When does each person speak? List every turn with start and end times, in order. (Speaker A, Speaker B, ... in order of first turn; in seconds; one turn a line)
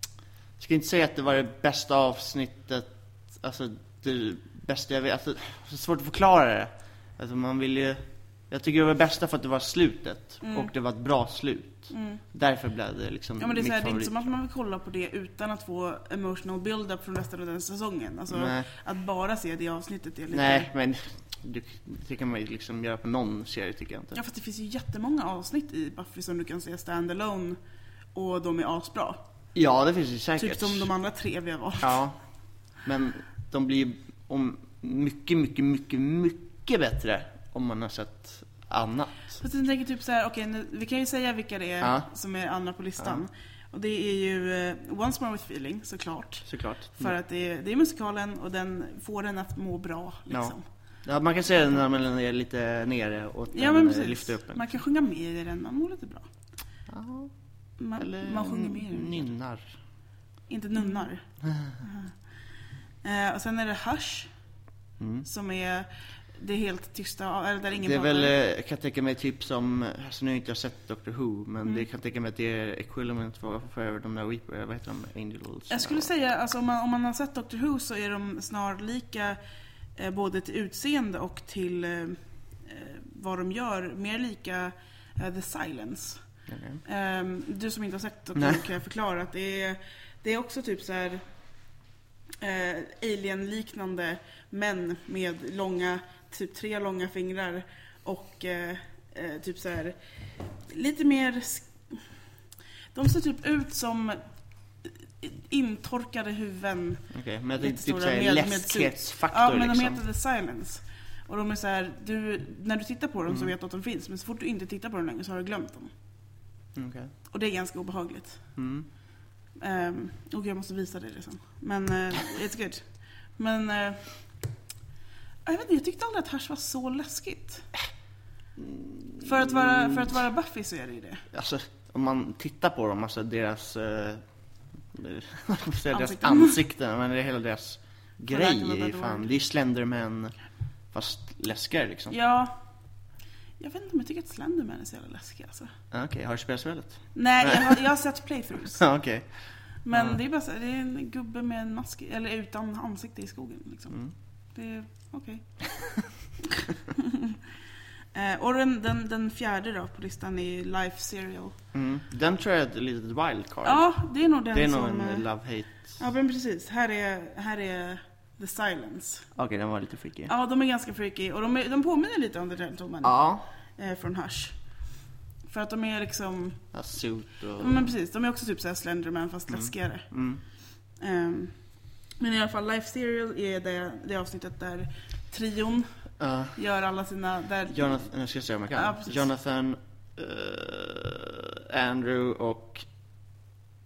Speaker A: 0.6-14.1
Speaker B: 10.4-10.7
Speaker B: 11.9-12.2
Speaker B: 13.4-20.7
Speaker A: 18.3-18.7
Speaker A: 20.3-24.2
Speaker B: 24.1-27.6
Speaker B: 28.1-29.2
Speaker A: 29.5-30.9
Speaker B: 30.4-32.0
Speaker A: 31.8-32.2
Speaker A: 32.8-39.4
Speaker B: 39.4-50.6
Speaker A: 41.8-42.1
Speaker A: 46.5-47.1
Speaker A: 50.3-54.6
Speaker B: 53.5-56.3
Speaker A: 56.9-57.3
Speaker B: 57.8-59.3
Speaker A: 58.0-59.7
Speaker B: 60.5-61.2
Speaker A: 61.5-61.8
Speaker B: 61.8-62.1
Speaker B: 63.0-64.3
Speaker A: 65.0-65.2
Speaker B: 65.2-68.3
Speaker A: 67.7-76.1
Speaker B: 75.7-79.4
Speaker B: 80.0-86.2
Speaker A: 86.5-86.8
Speaker B: 86.8-91.2
Speaker A: 88.3-88.6
Speaker B: 92.4-100.0
Speaker B: 100.6-102.0
Speaker B: 102.9-104.2
Speaker B: 104.8-115.9
Speaker A: 107.1-110.0
Speaker A: 113.3-113.5
Speaker A: 116.7-117.1
Speaker B: 117.3-118.5
Speaker A: 118.5-118.9
Speaker B: 119.5-124.4
Speaker B: 125.4-127.7
Speaker A: 128.6-130.1
Speaker B: 129.2-131.2
Speaker A: 131.3-134.2
Speaker A: 134.9-140.3
Speaker B: 135.9-136.6
Speaker B: 138.2-139.3
Speaker A: 140.9-142.1
Speaker B: 142.1-142.6
Speaker B: 143.6-145.7
Speaker A: 145.9-147.7
Speaker B: 147.1-148.8
Speaker A: 148.8-150.2
Speaker B: 149.8-154.0
Speaker B: 154.5-156.1
Speaker B: 158.1-161.6
Speaker A: 161.7-163.8
Speaker B: 163.6-169.3
Speaker A: 164.5-166.0
Speaker A: 169.3-170.3
Speaker B: 170.3-174.6
Speaker A: 173.0-173.4
Speaker B: 175.5-176.6
Speaker A: 176.7-177.9
Speaker B: 177.6-180.1
Speaker A: 179.5-180.4
Speaker B: 180.9-181.6
Speaker B: 182.2-185.9
Speaker A: 186.2-186.6
Speaker B: 186.5-188.1
Speaker A: 187.7-192.9
Speaker B: 188.7-189.2